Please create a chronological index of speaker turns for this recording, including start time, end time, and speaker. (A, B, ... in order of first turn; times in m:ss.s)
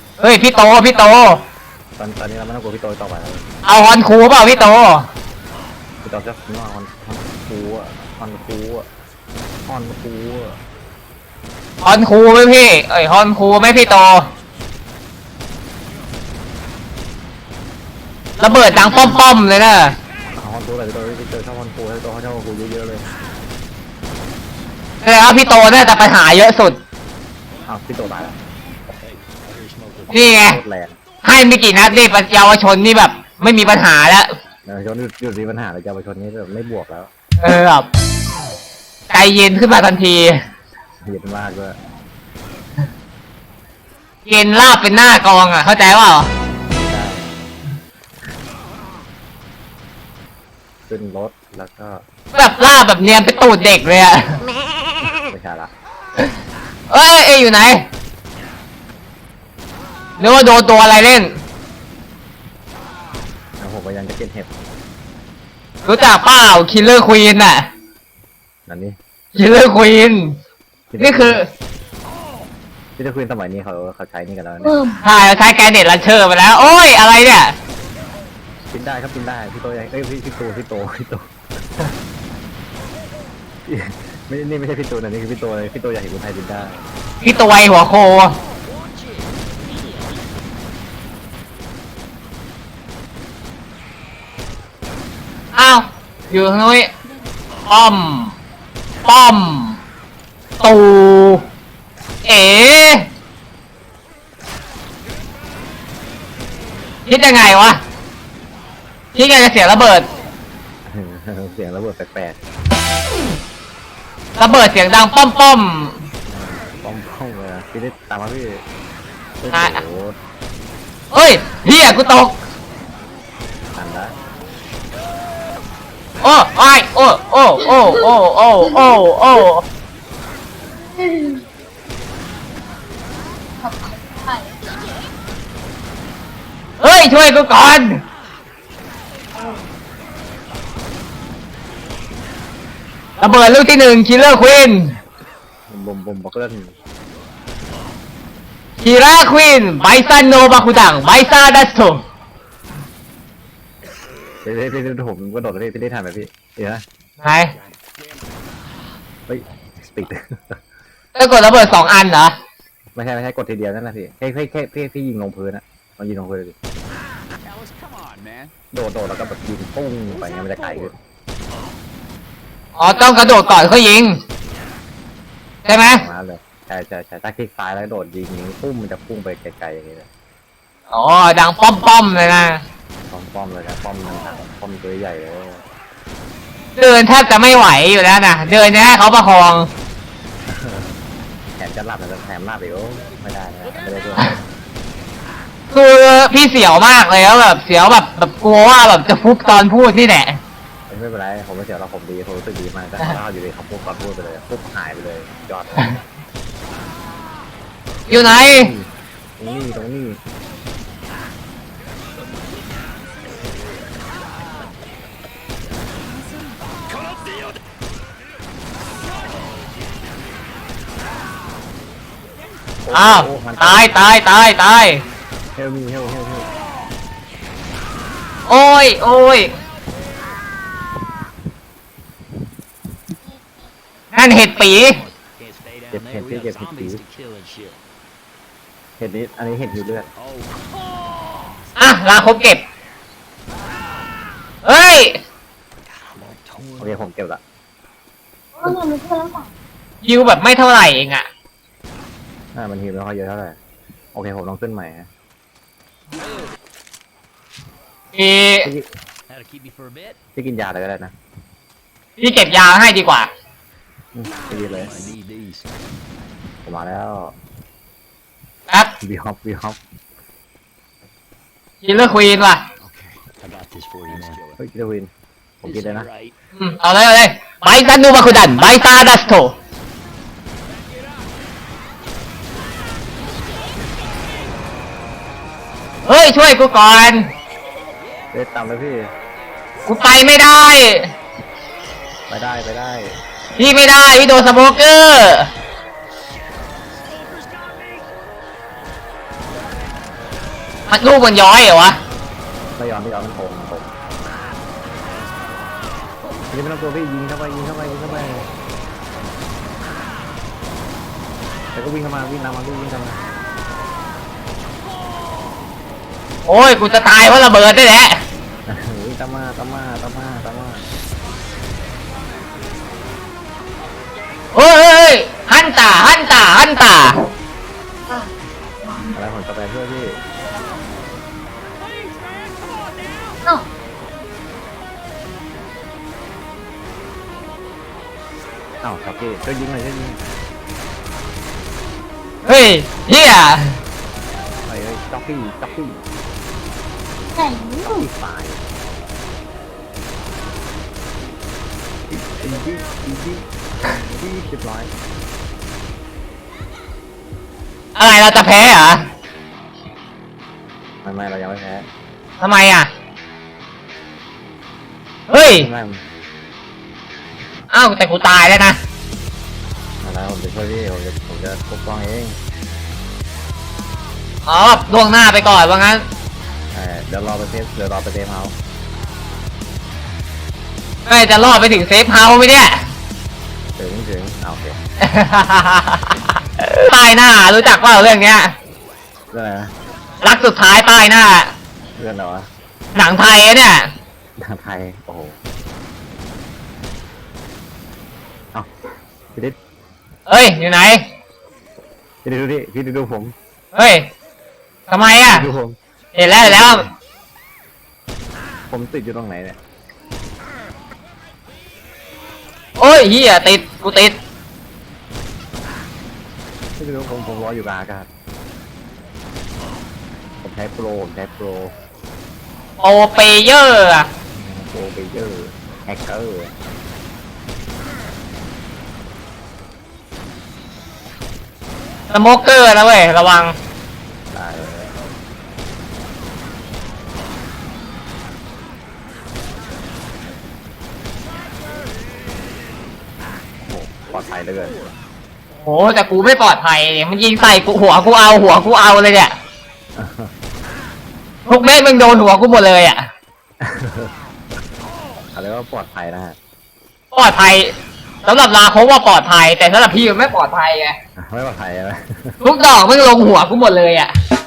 0:00.2-0:01.4 A
0:02.0-0:03.4 B
0:03.6-0:05.1 A
0:06.0-0:08.9 B
0:09.6-0:10.6 B
0:11.8-0:14.3 A
0:18.4-0:20.0 A
0:20.3-0:23.1 B
0:25.0-0:26.8 A
0:27.6-0:28.4 B
0:29.0-0:30.1 C
0:30.1-0:30.6 A
0:30.3-0:31.0 B
0:31.2-0:34.3 A
0:34.6-0:37.1 B
0:37.4-0:37.9 A
0:39.1-0:40.4 A
0:41.0-0:41.8 B
0:44.3-0:46.3 A
0:46.8-0:47.3 B
0:50.9-0:52.0 B
0:52.3-0:54.4 A
0:55.0-0:55.7 B
0:56.9-0:57.8 A
1:00.2-1:01.3 A
1:03.6-1:04.5 B
1:05.8-1:07.7 A
1:08.6-1:09.0 B
1:09.3-1:10.4 A
1:10.9-1:11.4 B
1:11.0-1:11.5 A
1:13.0-1:14.8 B
1:14.6-1:15.0 D
1:15.0-1:17.5 A
1:18.7-1:21.3 B
1:23.6-1:26.8 B
1:27.2-1:28.4 A
1:28.6-1:30.3 C
1:35.5-1:36.9 A
1:37.6-1:38.3 A
1:39.0-1:39.8 A
1:40.6-1:41.4 A
1:42.2-1:43.1 A
1:47.0-1:47.8 A
1:49.1-1:50.1 A
1:50.8-1:52.4 B
1:54.4-1:56.0 A
1:56.3-1:58.6 B
1:59.4-2:00.2 B
1:59.5-1:59.8 A
2:01.1-2:02.4 A
2:03.7-2:04.1 B
2:06.2-2:09.6 A
2:11.0-2:11.4 D
2:13.6-2:14.5 D
2:16.8-2:18.0 A
2:23.2-2:24.9 A
2:25.7-2:26.7 B
2:28.8-2:32.0 A
2:34.4-2:36.8 B
2:37.2-2:37.5 A
2:37.6-2:38.5 C
2:39.3-2:40.6 B
2:39.5-2:40.1 C
2:41.2-2:42.3 A
2:42.9-2:46.6 B
2:47.4-2:48.5 C
2:48.7-2:50.9 B
2:50.4-2:50.8 C
2:52.8-2:54.2 A
2:55.6-2:56.0 A
2:55.8-3:00.1 B
3:00.9-3:02.6 A
3:03.1-3:05.6 B
3:06.8-3:09.7 A
3:10.4-3:11.0 B
3:11.6-3:14.4 B
3:15.7-3:20.4 A
3:20.9-3:25.9 B
3:28.1-3:28.7 A
3:28.1-3:30.2 B
3:42.8-3:43.9 B
3:42.9-3:45.0 A
3:45.5-3:46.5 B
3:48.5-3:49.5 A
3:54.1-3:55.0 A
3:54.9-3:57.8 C
3:55.9-3:57.0 B
3:59.0-4:00.1 B
3:59.8-4:00.7 C
4:01.8-4:02.6 A
4:04.6-4:05.2 A
4:05.8-4:07.0 C
4:06.8-4:07.4 B
4:08.6-4:09.5 D
4:10.0-4:11.2 A
4:12.5-4:13.6 B
4:14.1-4:15.1 B
4:18.1-4:18.7 A
4:18.6-4:18.9 B
4:19.3-4:20.2 C
4:20.3-4:21.1 B
4:22.2-4:23.3 A
4:24.1-4:25.0 B
4:24.7-4:25.7 C
4:26.6-4:27.4 B
4:29.0-4:29.8 B
4:31.8-4:32.6 A
4:32.8-4:34.6 C
4:34.1-4:35.1 B
4:35.6-4:36.1 B
4:35.6-4:36.3 C
4:36.6-4:39.5 A
4:46.0-4:47.3 A
4:48.3-4:49.1 B
4:49.8-4:51.1 A
4:52.3-4:53.2 B
4:53.6-4:55.5 A
4:57.3-4:57.7 C
5:00.9-5:02.0 A
5:02.8-5:03.9 B
5:06.5-5:08.5 B
5:11.7-5:13.2 B
5:16.5-5:18.2 A
5:18.6-5:20.8 B
5:24.5-5:27.2 A
5:29.1-5:30.2 B
5:38.8-5:40.2 B
5:42.4-5:43.8 A
5:44.6-5:46.0 B
5:47.4-5:48.1 D
5:47.8-5:48.6 B
5:52.1-5:54.9 B
5:58.0-5:59.0 A
6:01.0-6:01.8 B
6:02.4-6:02.9 A
6:05.3-6:05.7 A
6:05.5-6:06.0 B
6:07.7-6:08.8 A
6:10.0-6:12.4 B
6:14.5-6:16.0 A
6:16.7-6:18.5 B
6:21.0-6:22.9 A
6:23.8-6:24.8 B
6:25.0-6:28.5 A
6:29.3-6:29.7 B
6:30.2-6:31.5 A
6:32.0-6:32.5 B
6:32.9-6:33.9 A
6:34.4-6:35.4 B
6:40.3-6:41.0 A
6:42.2-6:43.3 B
6:43.7-6:44.1 A
6:44.9-6:45.4 A
6:45.3-6:45.8 B
6:46.1-6:46.8 A
6:46.4-6:46.9 B
6:48.7-6:49.6 B
6:52.8-6:54.2 A
6:56.8-6:58.1 B
7:00.4-7:01.7 B
7:02.8-7:04.1 A
7:04.3-7:06.5 B
7:12.1-7:13.5 A
7:14.3-7:14.9 B
7:23.3-7:24.9 B
7:25.6-7:29.3 A
7:29.9-7:30.3 B
7:31.5-7:33.0 A
7:33.6-7:34.1 B
7:35.3-7:36.4 B
7:37.1-7:37.7 A
7:38.2-7:41.0 A
7:41.2-7:42.4 B
7:42.4-7:44.1 A